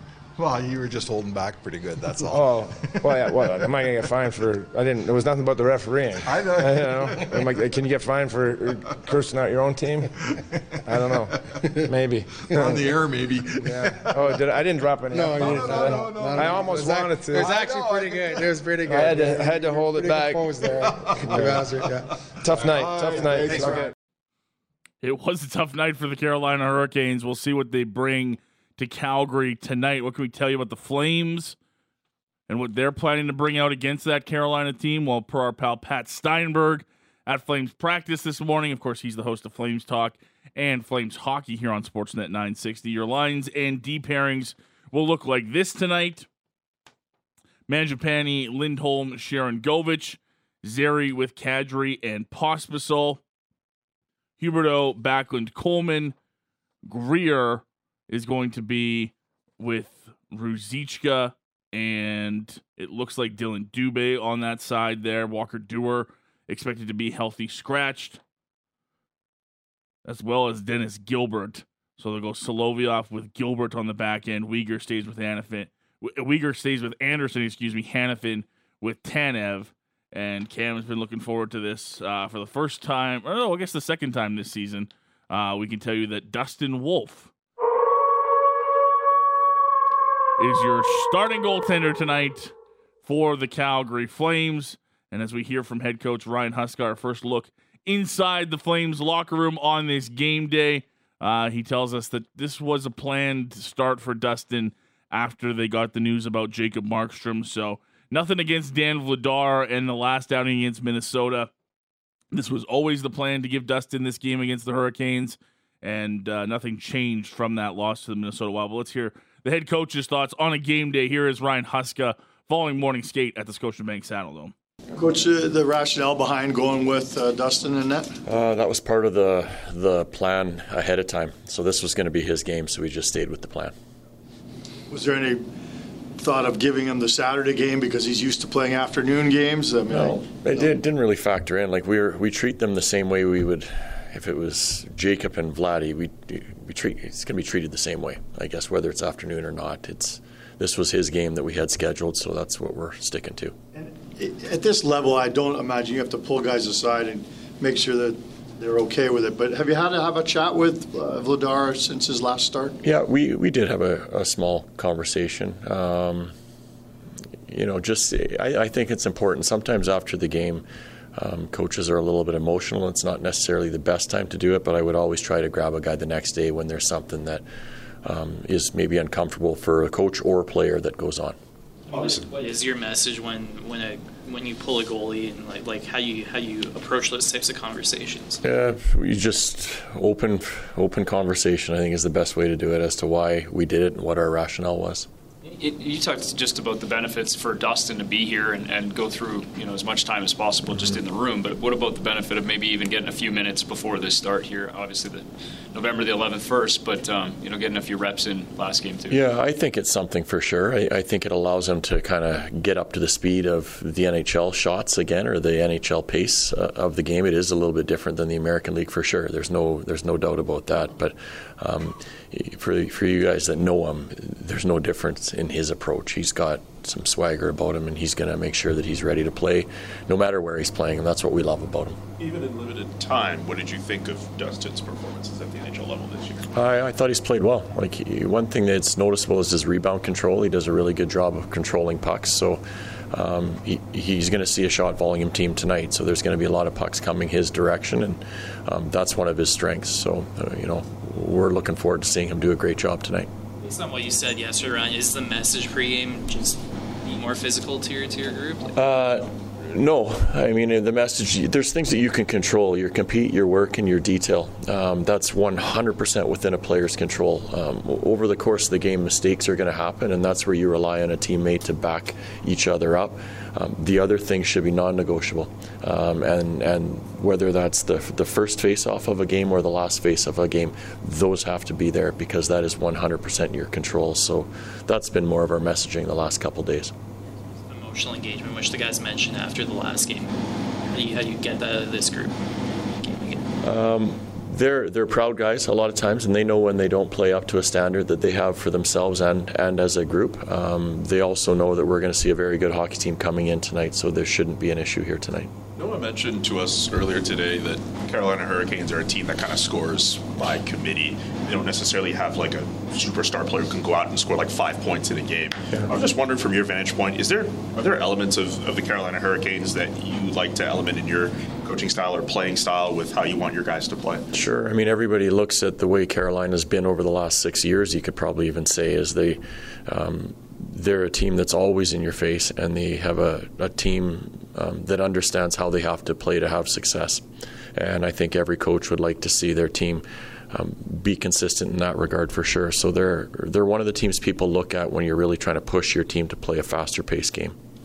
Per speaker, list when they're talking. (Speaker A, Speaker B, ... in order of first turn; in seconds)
Speaker A: 0.4-3.2, 6.3-7.5, 12.5-14.4, 15.3-18.5, 21.0-21.6, 22.6-23.9
Speaker B: 2.3-10.2, 10.8-13.0, 13.6-17.6, 18.9-20.5, 21.3-21.7, 22.4-23.9
Speaker C: 15.1-22.1, 23.2-23.7
Speaker D: 25.0-31.6, 32.5-46.3, 47.7-53.2, 54.4-56.1, 56.9-68.2, 70.0-87.3, 90.4-111.5, 112.3-124.5
Speaker E: 125.0-128.1, 134.9-135.4, 136.2-140.7, 153.8-162.8
Speaker F: 128.2-133.7, 139.9-153.6, 162.8-166.3, 167.5-177.4, 178.0-181.4, 188.4-195.1, 209.1-232.0, 236.5-253.3, 258.8-286.9, 293.6-305.5, 324.3-337.2, 337.8-347.6
Speaker G: 181.9-188.4, 253.6-258.8, 287.6-290.3, 290.9-292.4, 293.1-293.4
Speaker H: 195.4-209.3
Speaker I: 232.2-236.5, 305.8-324.3